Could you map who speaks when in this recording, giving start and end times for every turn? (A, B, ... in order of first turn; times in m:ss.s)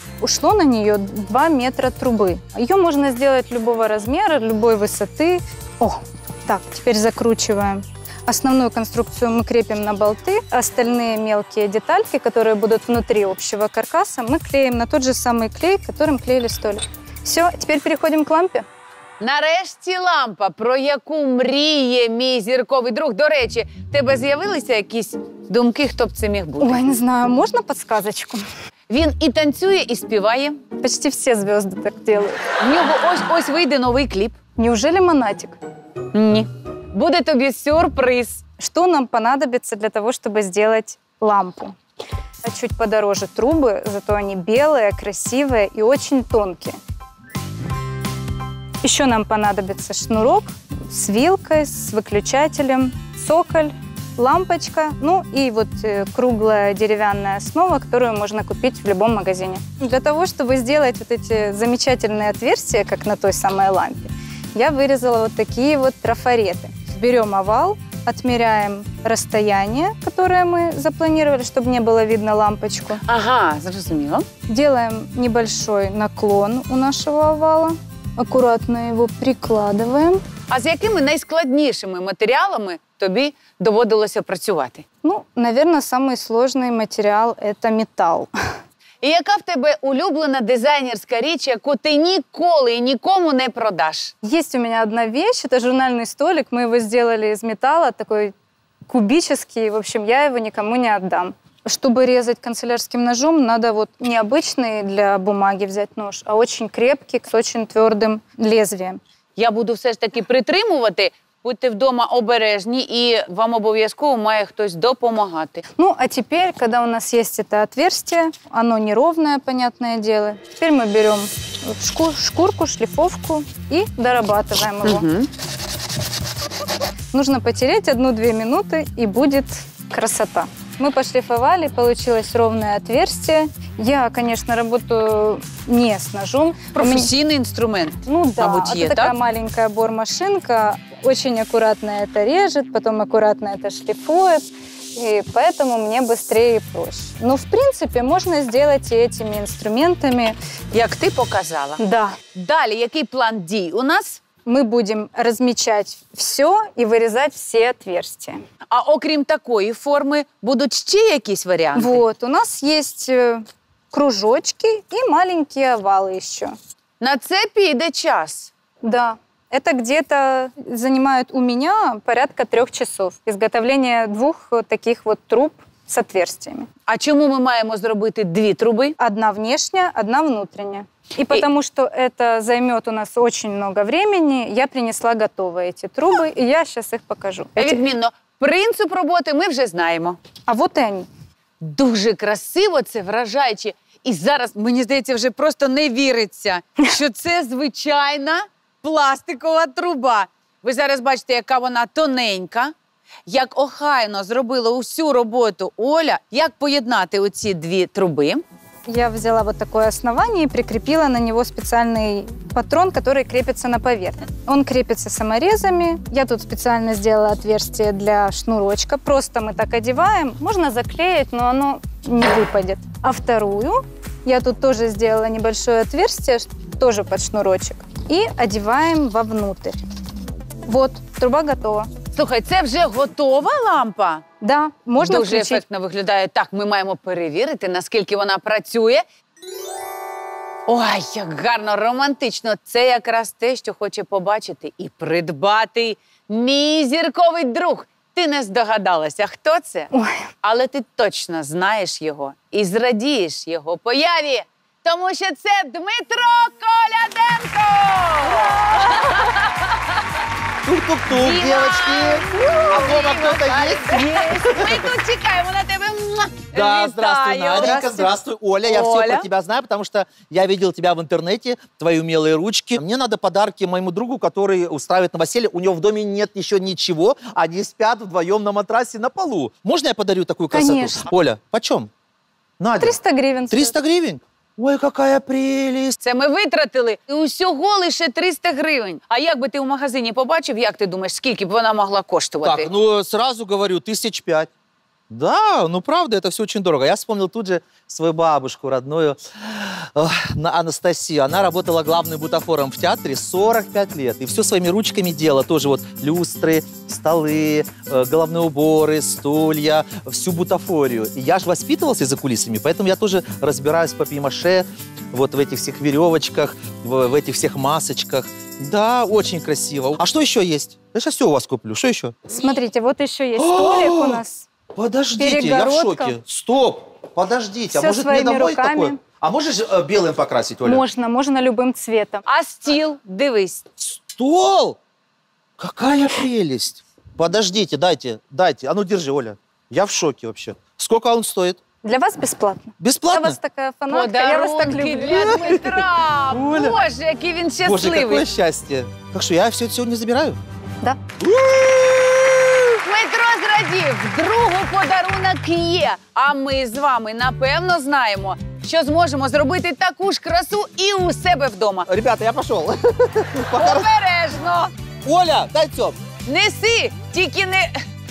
0:00.2-0:18.6 A
0:19.2-0:26.8 B
0:26.6-0:28.4 A
0:28.9-0:30.6 B
0:30.8-0:32.4 A
0:32.6-0:34.4 B
0:34.6-0:35.6 A
0:36.1-0:38.4 B
0:38.6-0:41.7 A
0:42.4-0:46.8 A
0:48.8-1:13.0 A
1:13.0-1:14.3 B
1:14.5-1:20.2 A
1:20.5-1:24.8 B
1:25.0-1:28.3 A
1:29.0-1:34.1 B
1:34.2-1:38.3 A
1:38.9-1:49.0 A
1:49.4-1:55.6 B
1:55.8-2:05.1 A
2:04.8-2:05.3 B
2:07.1-2:17.1 A
2:16.7-2:19.1 B
2:18.0-2:30.3 A
2:30.7-2:31.8 B
2:31.8-2:32.2 A
2:32.3-2:34.2 B
2:34.4-2:38.4 A
2:38.7-2:42.0 B
2:41.7-2:46.5 A
2:47.0-2:48.5 B
2:48.8-2:56.7 A
2:56.9-2:59.0 B
2:59.0-3:07.8 A
3:07.6-3:10.2 B
3:10.5-3:11.1 A
3:11.6-3:22.7 B
3:23.2-3:28.4 B
3:28.9-3:49.8 A
3:50.7-3:51.9 A
3:52.1-3:54.2 B
3:54.4-3:55.6 A
3:55.0-3:59.0 B
4:00.7-4:09.9 B
4:09.9-4:10.3 A
4:10.4-4:20.0 B
4:20.6-4:24.8 C
4:21.1-4:27.8 B
4:24.1-4:24.4 A
4:26.5-4:41.9 C
4:27.5-4:28.1 A
4:28.6-4:29.2 B
4:40.5-4:41.1 A
4:42.6-4:43.0 C
4:42.8-4:43.8 A
4:43.5-4:46.0 C
4:46.0-4:52.7 B
4:52.4-4:54.5 C
4:55.1-5:22.2 C
5:22.3-5:24.5 A
5:23.4-5:24.2 C
5:24.7-5:30.8 C
5:25.2-5:26.2 A
5:27.7-5:29.0 A
5:30.6-5:32.2 A
5:32.2-5:33.6 B
5:33.8-5:34.8 C
5:35.6-5:41.6 C
5:41.8-5:45.5 A
5:42.8-5:43.4 C
5:43.9-5:48.2 B
5:45.1-5:46.8 C
5:47.6-5:50.4 C
5:51.2-5:52.8 C
5:52.8-6:01.9 B
6:01.9-6:03.9 C
6:03.6-6:04.7 B
6:05.0-6:06.0 C
6:06.2-6:07.7 B